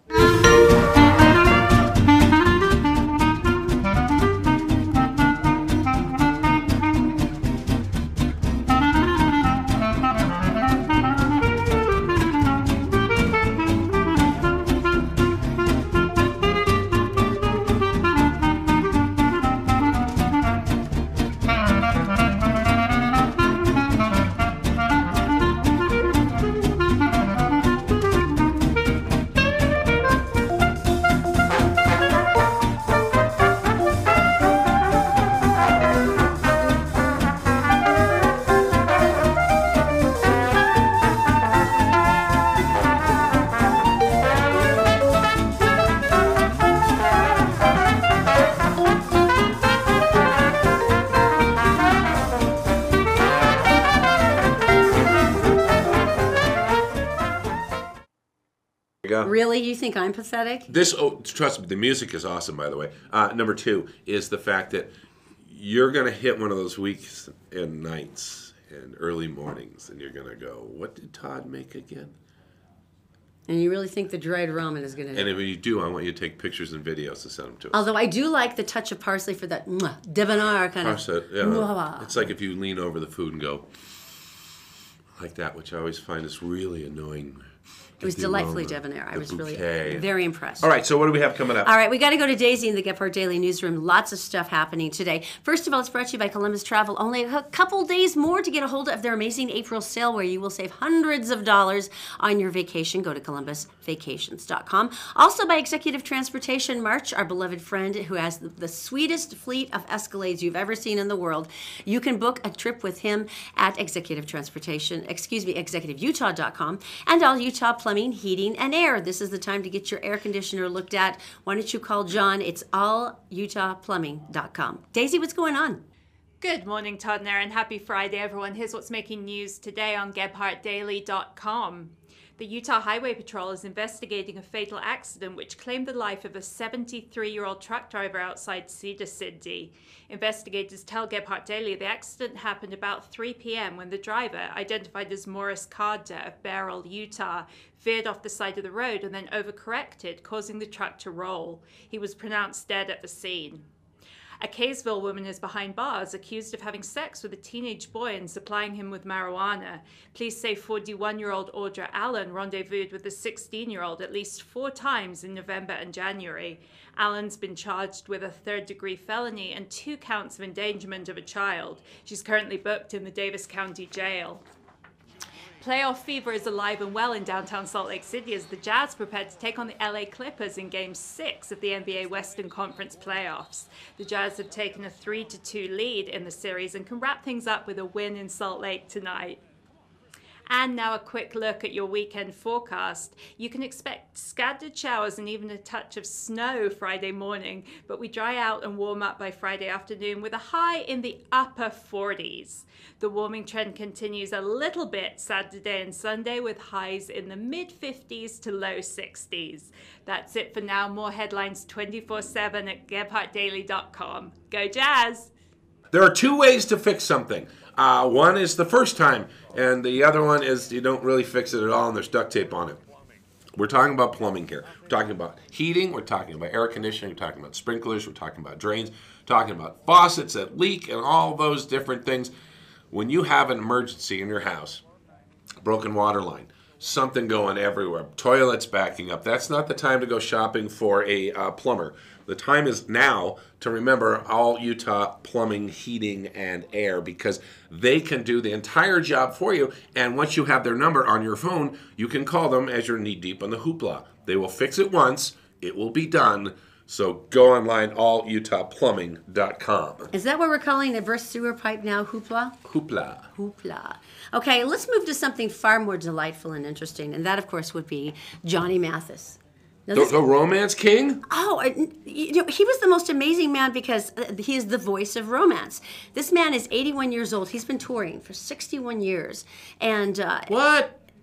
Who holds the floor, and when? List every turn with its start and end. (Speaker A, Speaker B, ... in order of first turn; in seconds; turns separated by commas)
Speaker A: 59.0-59.3, Speaker B: 59.2-60.7, Speaker A: 60.7-72.2, Speaker B: 73.5-75.3, Speaker A: 75.1-77.8, Speaker B: 77.7-82.2, Speaker A: 80.8-83.7, Speaker A: 85.2-87.5, Speaker A: 88.0-90.0, Speaker B: 88.0-90.7, Speaker A: 90.6-91.7, Speaker B: 91.6-125.8, Speaker C: 126.4-153.6, Speaker C: 154.4-174.4, Speaker C: 175.6-189.4, Speaker C: 190.5-215.3, Speaker A: 215.9-222.8, Speaker A: 223.5-232.3, Speaker A: 232.9-234.8, Speaker A: 235.6-260.1, Speaker B: 260.1-262.6, Speaker A: 262.6-263.3, Speaker B: 263.3-270.1, Speaker A: 269.9-271.2, Speaker B: 271.3-280.5, Speaker A: 280.5-281.0